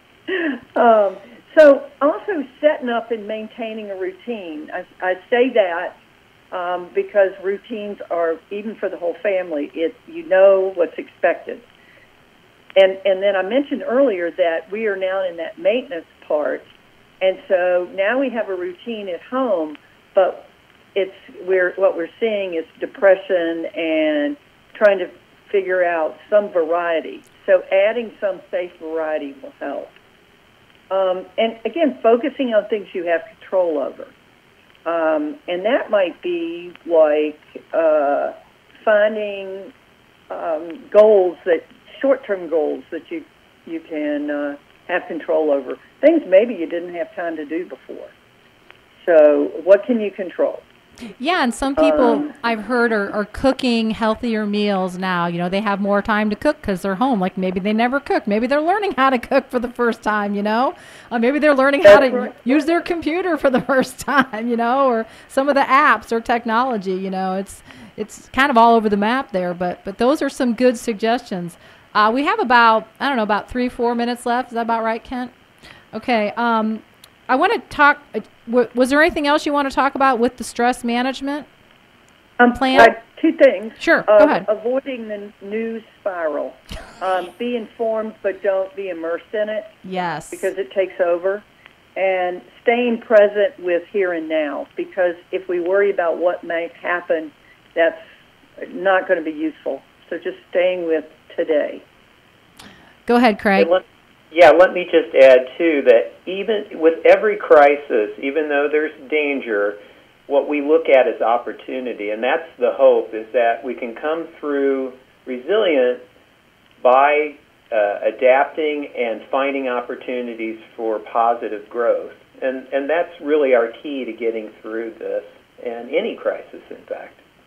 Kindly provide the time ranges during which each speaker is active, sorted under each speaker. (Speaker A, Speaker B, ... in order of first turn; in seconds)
Speaker A: 0.3-6.0, 6.5-11.6, 12.8-16.7, 17.2-29.9, 30.9-34.1, 34.9-39.7, 40.3-48.1, 49.0-50.6, 51.7-52.3, 61.8-62.4, 82.4-89.8, 90.3-91.4, 92.0-98.0, 98.6-101.8
Speaker B: 51.2-75.3, 75.9-81.5, 82.5-82.9, 83.8-84.5, 89.8-90.5, 103.1-103.7
Speaker C: 103.6-116.0, 116.8-127.2